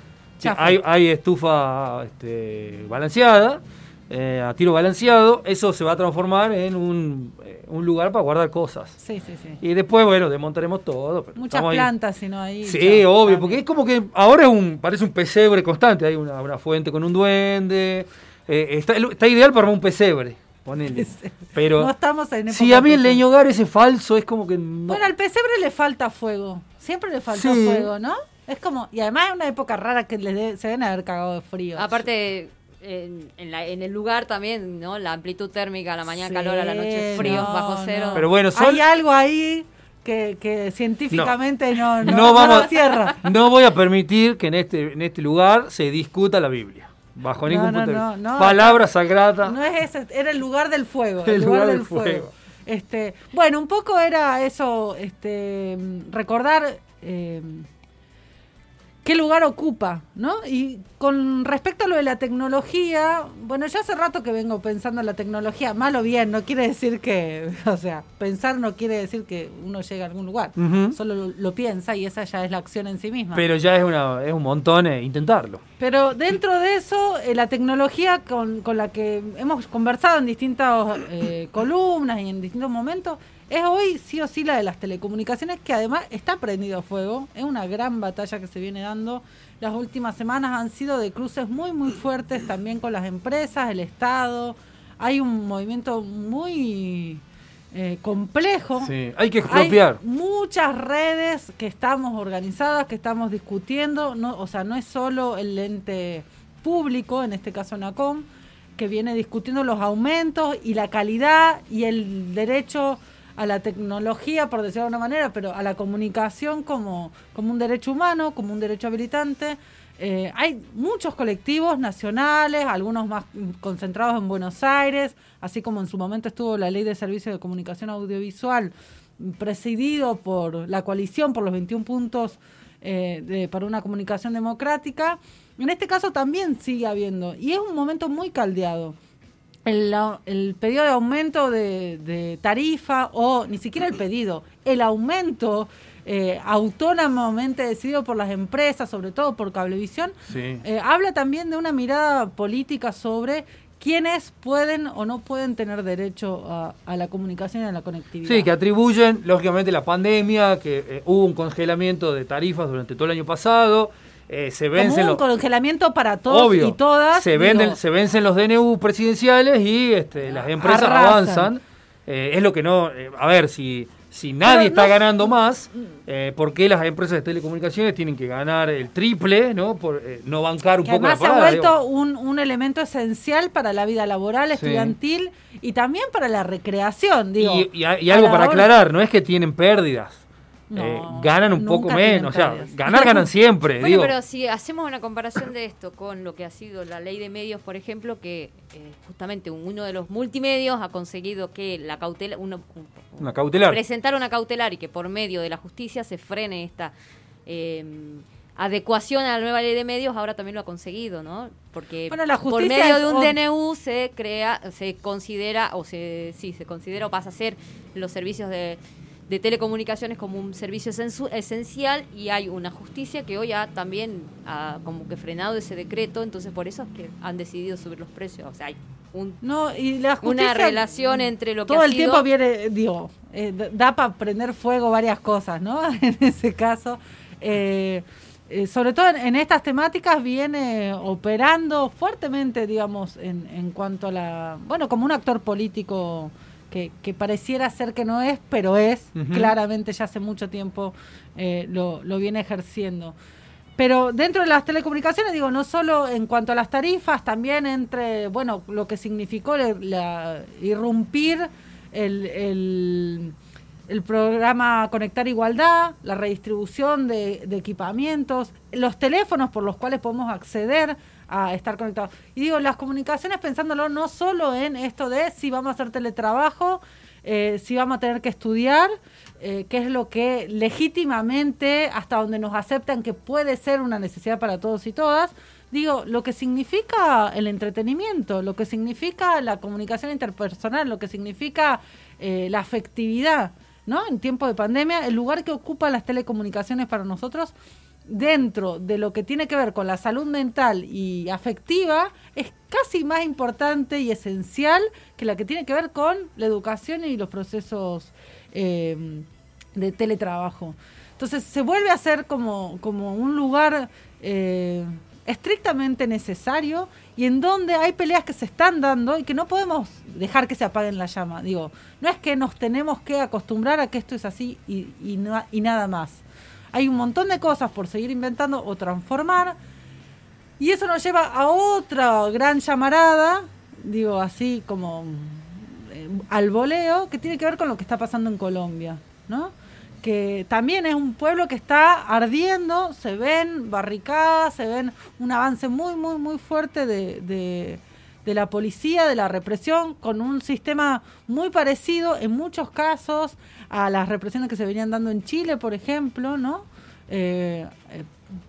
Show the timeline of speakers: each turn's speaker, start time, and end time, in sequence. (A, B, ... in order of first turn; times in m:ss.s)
0:00.4-0:00.8 A
0:00.4-0:09.0 B
0:09.0-0:09.6 A
0:09.6-0:11.9 B
0:11.4-0:13.6 A
0:12.6-0:21.9 B
0:20.9-0:23.2 A
0:22.5-0:25.1 B
0:24.9-0:32.0 A
0:27.3-0:27.9 B
0:31.8-0:38.2 C
0:36.2-0:43.2 A
0:37.2-0:37.4 B
0:38.1-0:38.8 B
0:42.0-0:49.6 B
0:47.4-0:48.8 A
0:49.4-0:57.7 A
0:51.2-0:52.3 B
0:59.0-1:13.4 A
1:10.6-1:11.0 B
1:13.3-1:15.6 B
1:15.8-1:48.2 A
1:38.8-1:40.0 B
1:48.8-2:19.0 A
2:19.6-2:38.5 A
2:30.3-2:30.6 B
2:38.2-2:45.2 B
2:44.8-2:47.8 A
2:46.3-3:01.7 B
2:50.5-2:51.5 A
2:54.4-2:55.1 A
3:00.8-3:08.7 A
3:04.5-3:05.0 B
3:07.4-3:10.2 B
3:10.7-3:13.3 A
3:10.8-3:14.1 B
3:13.8-3:26.9 C
3:23.2-3:23.8 B
3:27.4-3:49.4 C
3:32.1-3:33.4 A
3:49.4-4:13.1 A
3:50.2-3:52.2 C
4:09.1-4:09.5 B
4:13.8-4:23.3 A
4:23.9-4:57.5 A
4:58.1-5:29.6 A
5:30.6-5:58.1 A